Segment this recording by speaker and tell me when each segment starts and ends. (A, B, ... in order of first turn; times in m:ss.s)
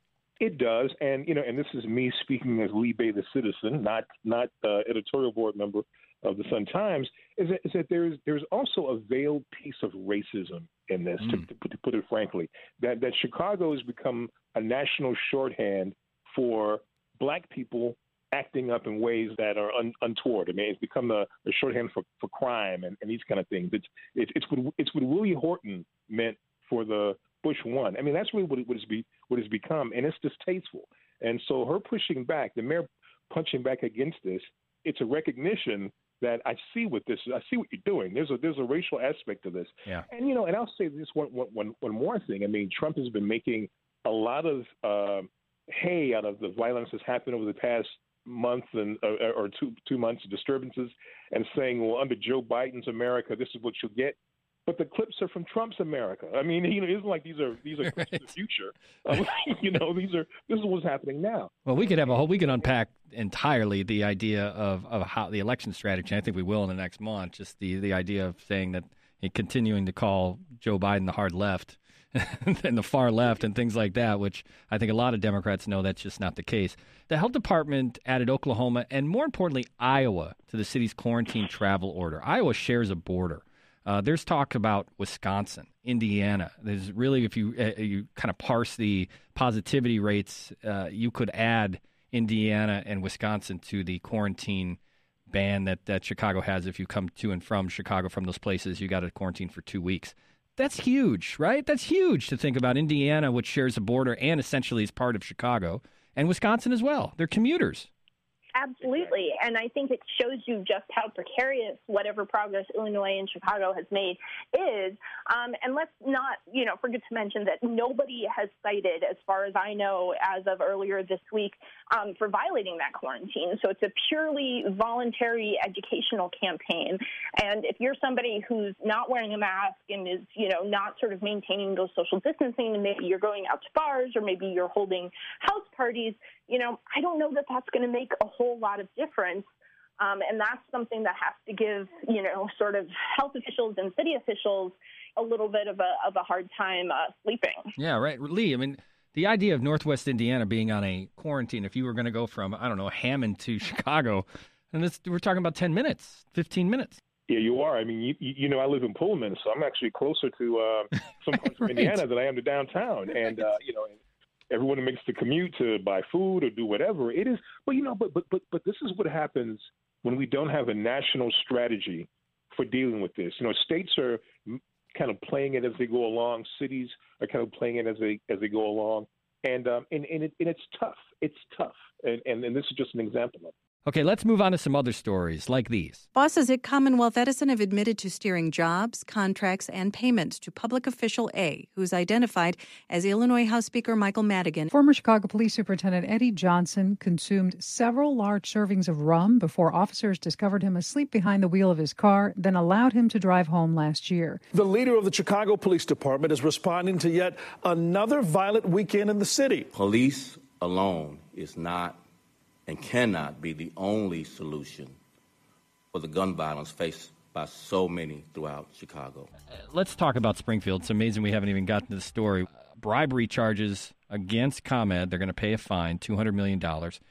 0:00.4-1:01.6 A
0:57.9-0:58.2 B
1:01.7-1:34.8 B
1:35.3-1:47.9 B
1:48.6-2:19.5 C
2:20.0-2:27.7 C
2:27.8-2:37.0 B
2:37.3-2:44.0 A
2:41.6-2:42.0 B
2:44.5-3:03.5 A
3:03.9-3:06.0 B
3:06.2-3:14.7 D
3:14.7-3:24.4 E
3:24.5-3:29.7 F
3:29.7-3:32.0 G
3:32.7-3:35.0 G
3:35.9-3:39.3 G
3:39.6-3:47.0 B